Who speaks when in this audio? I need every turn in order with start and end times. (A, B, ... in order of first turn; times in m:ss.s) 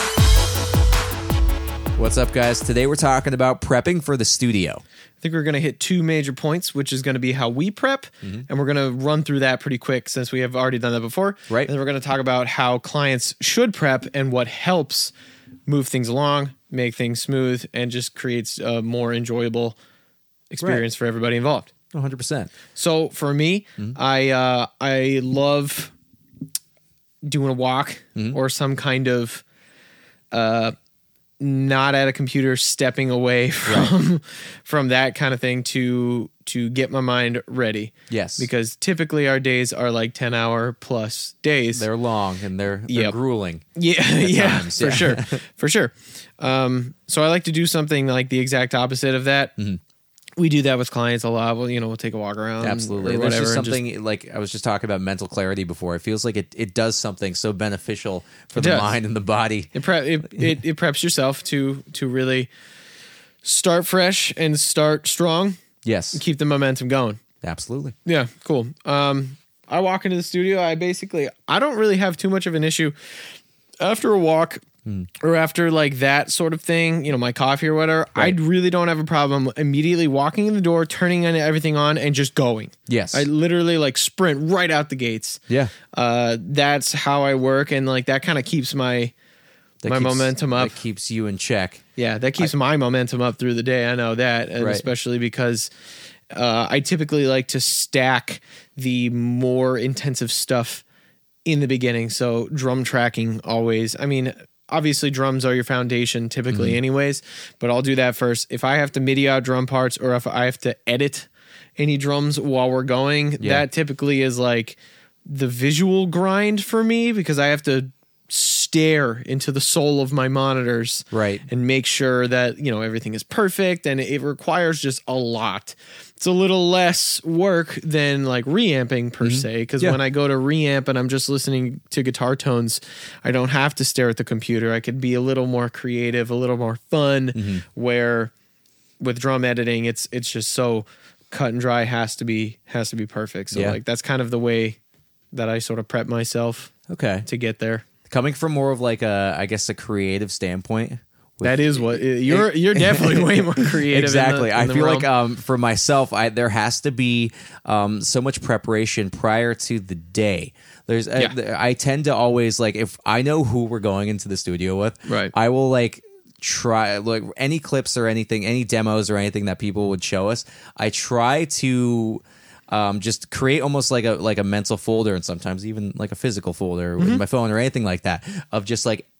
0:02.0-0:04.8 A
0:05.2-0:15.1 B
0:15.7-0:19.8 B
0:20.5-0:21.7 B
0:21.9-0:22.5 A
0:22.8-0:25.9 B
0:27.2-0:29.4 B
0:30.3-0:30.7 B
0:31.4-0:41.9 B
0:33.6-0:33.9 A
0:38.1-0:38.5 A
0:41.7-0:43.6 A
0:42.9-0:43.2 B
0:43.8-0:49.5 B
0:44.2-0:45.4 A
0:50.4-0:53.8 B
0:52.6-0:59.7 A
0:58.6-0:58.9 B
0:59.7-1:02.5 B
1:03.4-1:05.6 B
1:05.8-1:06.2 A
1:06.1-1:07.2 B
1:07.4-1:07.9 A
1:08.0-1:13.0 B
1:13.8-1:14.6 B
1:15.2-1:25.4 B
1:22.9-1:23.3 A
1:25.9-1:29.1 B
1:29.8-1:31.8 A
1:29.9-1:30.8 B
1:32.0-1:35.7 B
1:34.6-1:34.8 A
1:36.3-1:40.8 B
1:41.4-2:18.3 B
1:46.5-1:46.8 A
1:53.4-1:53.6 A
2:01.1-2:01.4 A
2:09.2-2:10.0 A
2:17.3-2:17.6 A
2:19.0-2:24.8 B
2:23.5-2:23.8 A
2:25.3-2:26.7 B
2:26.9-2:27.3 A
2:27.2-2:27.8 B
2:28.1-2:59.0 A
2:31.4-2:35.0 B
2:45.1-2:45.3 B